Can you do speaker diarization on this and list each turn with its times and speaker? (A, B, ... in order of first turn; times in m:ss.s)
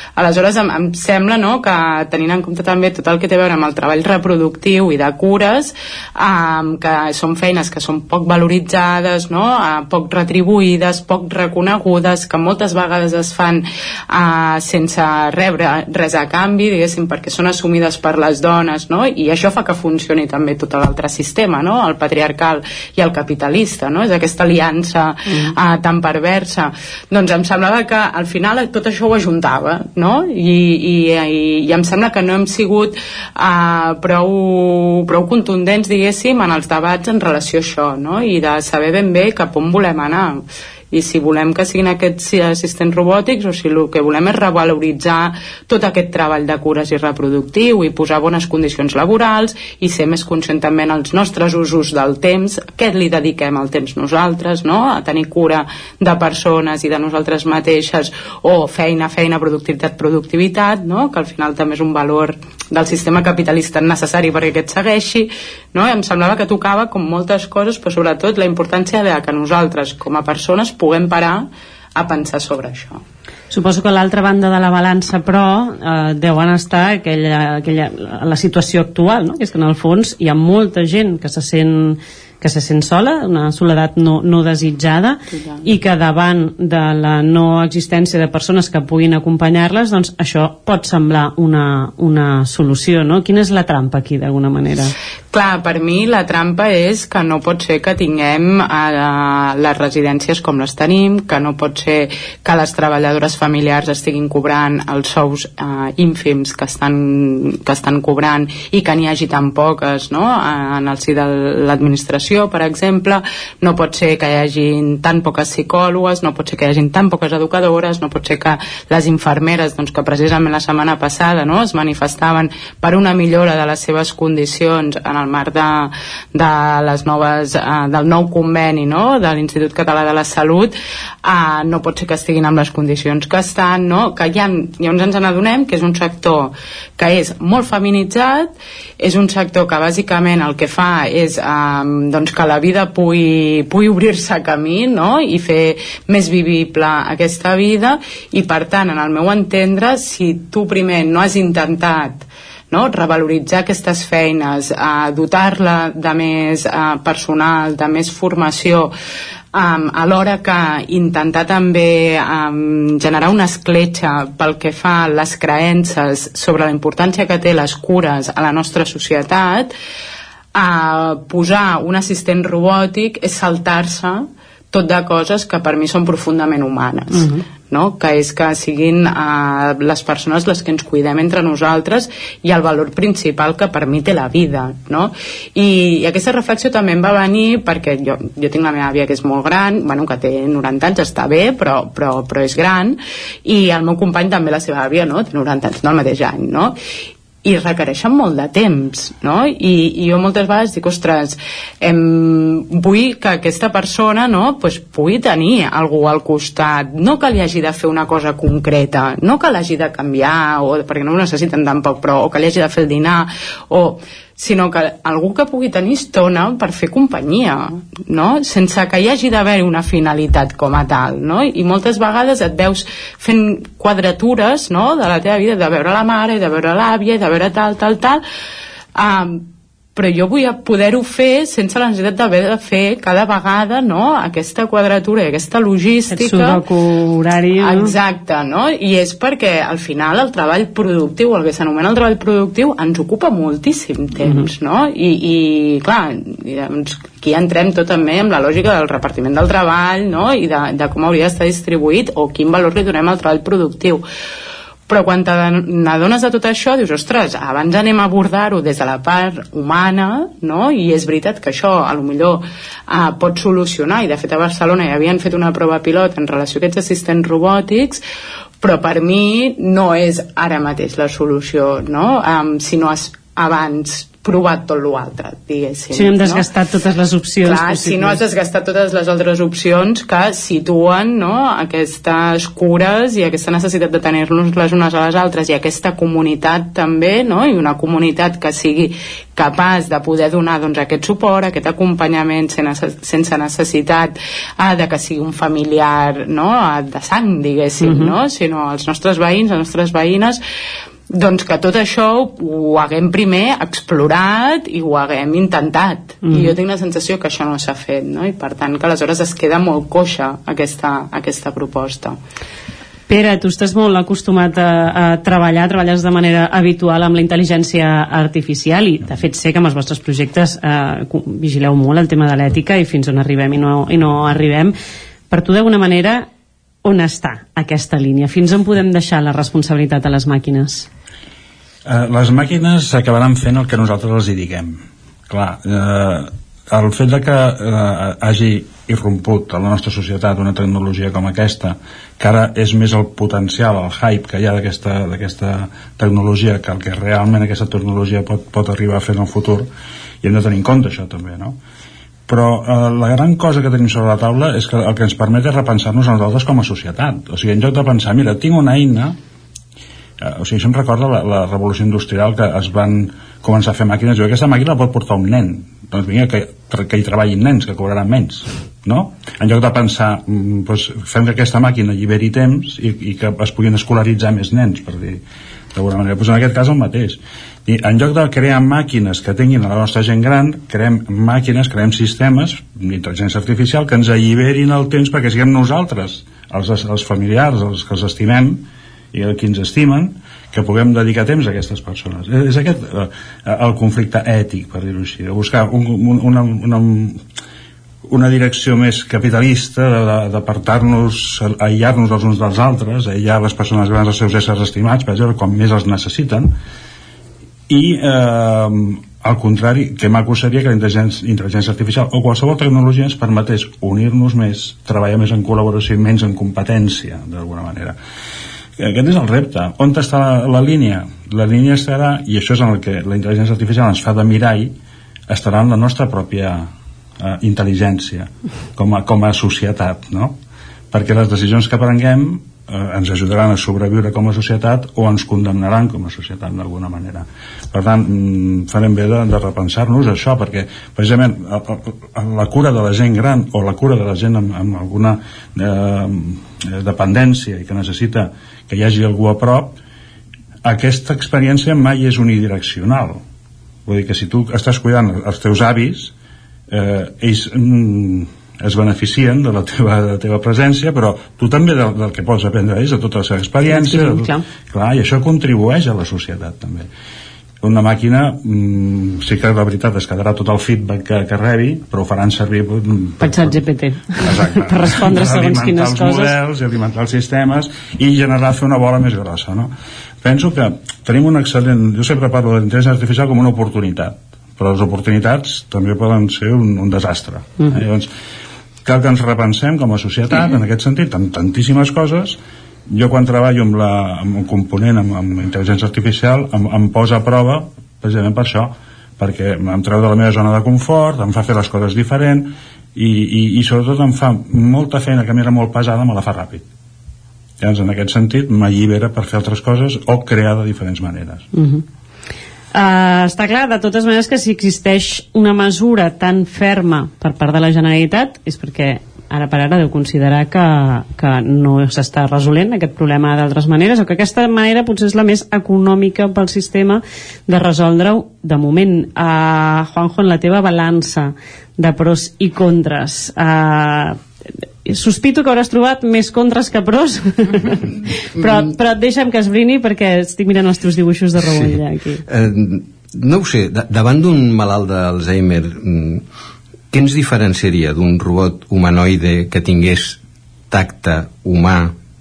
0:00.2-1:13.0 A
1:13.5-1:34.9 B
1:25.3-1:25.6 A
1:35.3-2:38.9 A
2:39.5-2:49.7 A
2:50.6-3:16.8 A
2:57.1-2:57.4 B
3:17.4-3:48.2 A
3:49.0-3:56.6 A
3:56.1-3:57.9 B
3:57.6-4:14.0 A
4:04.2-4:04.5 B
4:14.9-4:28.0 A
4:28.6-4:36.5 A
4:35.9-4:38.2 B
4:37.4-5:00.4 A
4:57.8-4:58.1 B
5:01.1-5:12.2 A
5:06.2-5:06.6 B
5:13.1-5:24.8 B
5:25.3-5:26.3 B
5:26.8-5:30.9 B
5:31.9-5:49.7 C
5:50.2-5:51.6 C
5:52.3-5:59.2 C
6:00.2-6:15.2 C
6:15.7-6:37.2 C
6:38.1-6:46.6 C
6:47.7-6:58.0 C
6:58.8-7:04.7 C
7:05.3-7:06.7 C
7:07.2-7:10.4 C
7:10.9-7:29.8 C
7:30.6-7:33.2 C
7:33.9-7:36.1 C
7:36.7-7:46.9 C
7:43.6-7:44.4 B
7:47.6-7:53.6 C
7:53.2-7:56.3 B
7:54.2-8:08.1 C
8:08.8-8:12.4 C
8:12.9-8:26.6 C
8:27.6-8:31.5 C
8:31.5-8:31.8 B
8:32.7-8:54.2 B
8:54.9-9:02.2 B
8:58.4-8:58.7 D
9:01.4-9:06.2 D
9:06.9-9:10.2 D
9:10.7-9:12.0 D